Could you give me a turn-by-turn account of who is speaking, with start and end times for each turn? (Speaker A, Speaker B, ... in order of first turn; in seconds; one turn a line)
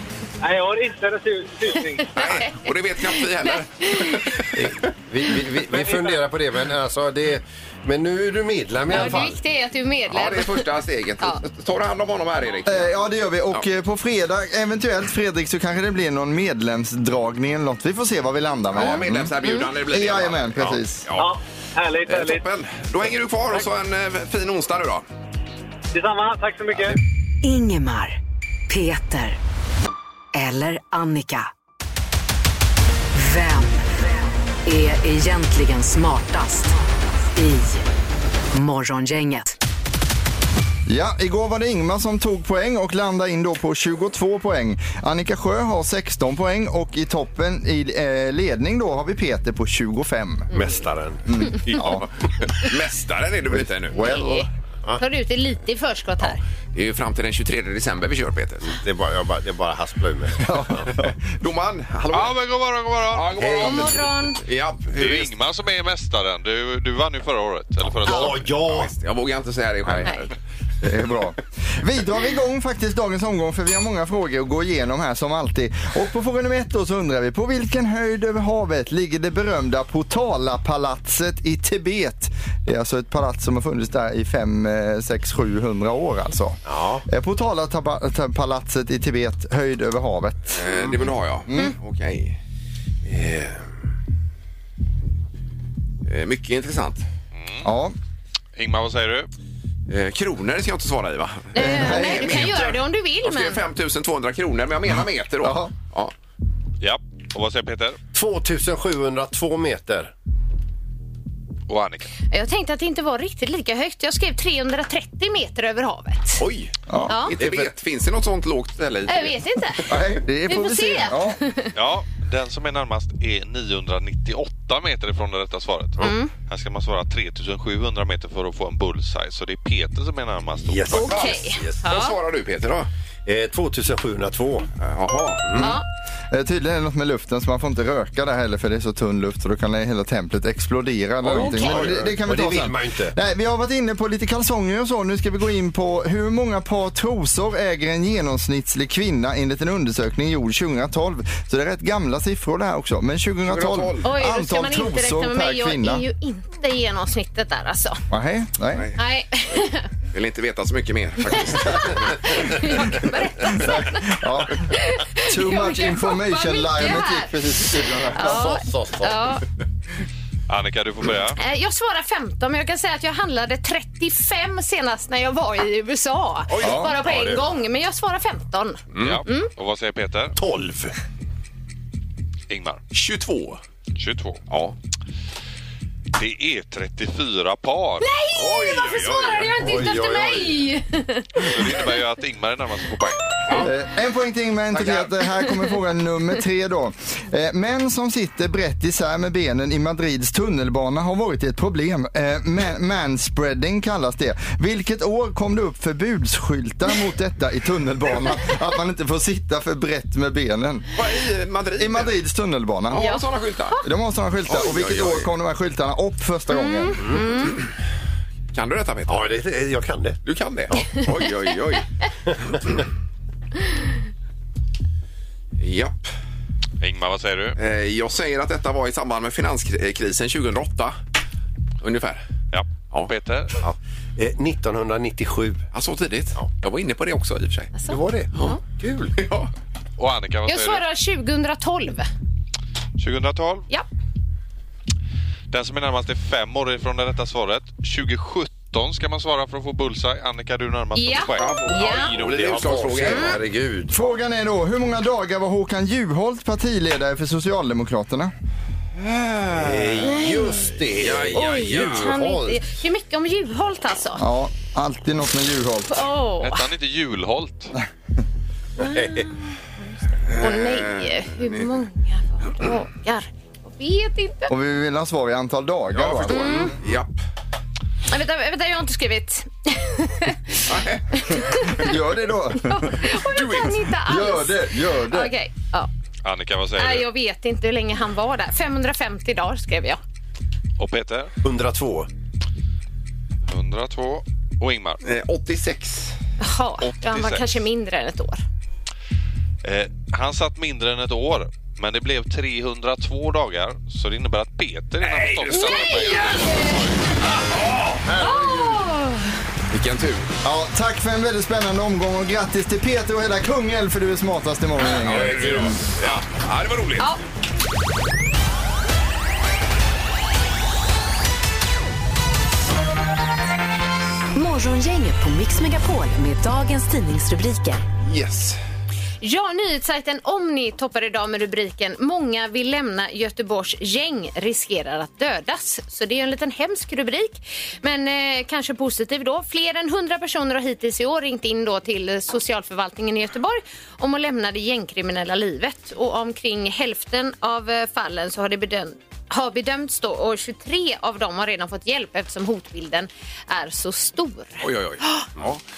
Speaker A: 0.4-2.1
Speaker B: 2.0-4.4
Speaker C: 2.1-4.6
Speaker D: 4.5-9.4
Speaker A: 5.7-6.2
Speaker B: 8.9-10.7
Speaker C: 10.1-12.9
Speaker E: 12.6-19.3
Speaker C: 18.7-21.3
Speaker E: 19.9-21.1
Speaker A: 21.1-22.4
Speaker C: 22.1-25.1
Speaker A: 25.9-27.0
Speaker F: 27.4-29.4
Speaker F: 30.3-31.5
Speaker F: 33.1-33.8
Speaker F: 34.6-36.8
Speaker F: 37.3-37.9
Speaker F: 38.5-39.5
Speaker E: 40.9-50.5
Speaker D: 50.5-52.0
Speaker E: 51.2-52.0
Speaker C: 52.4-54.2
Speaker E: 53.5-54.4
Speaker B: 53.9-56.4
Speaker C: 56.7-58.8
Speaker D: 58.7-60.9
Speaker E: 60.4-61.1
Speaker C: 61.3-62.4
Speaker G: 62.1-63.4
Speaker C: 63.1-65.3
Speaker D: 63.4-64.0
Speaker B: 63.6-64.4
Speaker G: 65.0-68.5
Speaker D: 68.0-68.9
Speaker B: 68.0-68.3
Speaker C: 68.6-70.3
Speaker E: 70.8-90.9
Speaker D: 86.7-87.0
Speaker C: 90.5-92.4
Speaker D: 93.1-93.5
Speaker C: 96.0-97.0
Speaker G: 97.3-97.7
Speaker E: 97.6-97.9
Speaker G: 98.5-99.3
Speaker C: 99.9-106.1
Speaker B: 101.5-103.6
Speaker E: 101.6-102.5
Speaker E: 105.4-105.7
Speaker G: 106.8-108.0
Speaker D: 108.1-110.1
Speaker G: 111.7-112.1
Speaker B: 112.3-116.4
Speaker C: 116.4-116.7
Speaker E: 116.9-117.3
Speaker B: 117.1-117.3
Speaker C: 117.2-119.4
Speaker D: 117.4-117.7
Speaker B: 119.1-119.9
Speaker E: 119.9-121.4
Speaker B: 120.5-121.7
Speaker G: 121.7-131.3
Speaker B: 126.0-126.3
Speaker D: 130.6-131.8
Speaker B: 130.9-132.2
Speaker C: 131.8-132.9
Speaker D: 133.2-134.7
Speaker C: 134.8-135.5
Speaker D: 135.4-135.8
Speaker B: 135.6-135.8
Speaker E: 136.3-156.0
Speaker D: 141.3-143.1
Speaker C: 153.5-154.0
Speaker B: 154.0-158.0
Speaker E: 158.1-158.9
Speaker C: 158.7-159.0
Speaker B: 159.0-159.9
Speaker C: 160.1-162.1
Speaker B: 161.6-164.1
Speaker E: 163.4-168.4
Speaker B: 164.7-169.4
Speaker D: 168.2-169.3
Speaker G: 170.5-171.4
Speaker B: 171.4-179.5
Speaker E: 176.6-176.9
Speaker D: 176.6-177.4
Speaker C: 178.9-179.2
Speaker G: 179.0-180.4
Speaker D: 180.4-180.9
Speaker G: 182.5-182.8
Speaker C: 182.9-183.6
Speaker G: 184.0-184.4
Speaker C: 184.5-184.8
Speaker G: 186.2-188.1
Speaker B: 188.0-191.5
Speaker C: 188.3-189.6
Speaker D: 189.6-190.6
Speaker G: 191.4-193.6
Speaker E: 193.6-210.9
Speaker C: 194.7-195.1
Speaker C: 210.9-212.1
Speaker E: 211.8-213.1
Speaker C: 212.9-213.8
Speaker B: 212.9-213.8
Speaker E: 213.8-217.1
Speaker C: 214.4-215.3
Speaker B: 216.5-217.6
Speaker C: 218.5-219.3
Speaker D: 219.1-220.2
Speaker C: 220.2-221.8
Speaker C: 225.6-226.1
Speaker G: 226.8-227.6
Speaker C: 227.6-230.9
Speaker C: 231.8-232.2
Speaker G: 232.5-233.6
Speaker D: 233.6-235.6
Speaker C: 235.7-237.7
Speaker B: 237.7-238.6
Speaker D: 237.9-239.2
Speaker C: 239.2-239.5
Speaker G: 240.0-240.8
Speaker B: 240.5-242.1
Speaker G: 243.0-243.6
Speaker G: 245.5-251.6
Speaker B: 250.9-252.1
Speaker C: 251.3-253.4
Speaker D: 252.0-253.9
Speaker B: 253.1-253.4
Speaker E: 253.9-258.3
Speaker C: 259.0-260.1
Speaker D: 259.5-262.6
Speaker B: 260.0-260.7
Speaker C: 261.0-262.1
Speaker B: 261.3-264.2
Speaker E: 264.2-266.0
Speaker B: 265.9-266.7
Speaker G: 266.4-267.7
Speaker D: 268.8-269.3
Speaker B: 268.8-269.3
Speaker B: 270.1-274.5
Speaker C: 270.3-271.7
Speaker E: 274.5-276.7
Speaker C: 275.9-277.1
Speaker B: 276.3-276.7
Speaker B: 278.1-281.9
Speaker C: 280.6-281.3
Speaker E: 281.7-283.0
Speaker B: 282.6-285.9
Speaker C: 283.3-283.8
Speaker E: 284.0-285.3
Speaker G: 286.2-287.1
Speaker B: 286.8-290.0
Speaker G: 290.8-291.3
Speaker D: 291.4-292.1
Speaker G: 293.5-295.0
Speaker C: 295.0-296.1
Speaker B: 296.4-298.4
Speaker G: 296.8-297.5
Speaker G: 299.6-307.0
Speaker C: 305.0-306.4
Speaker B: 305.5-306.8
Speaker C: 307.3-308.0
Speaker D: 308.0-308.8
Speaker B: 308.2-309.4
Speaker C: 309.7-310.3
Speaker E: 310.4-315.8
Speaker C: 314.9-317.1
Speaker D: 315.0-315.9
Speaker F: 324.3-327.8
Speaker C: 328.0-328.6
Speaker B: 329.2-355.3
Speaker C: 354.6-355.6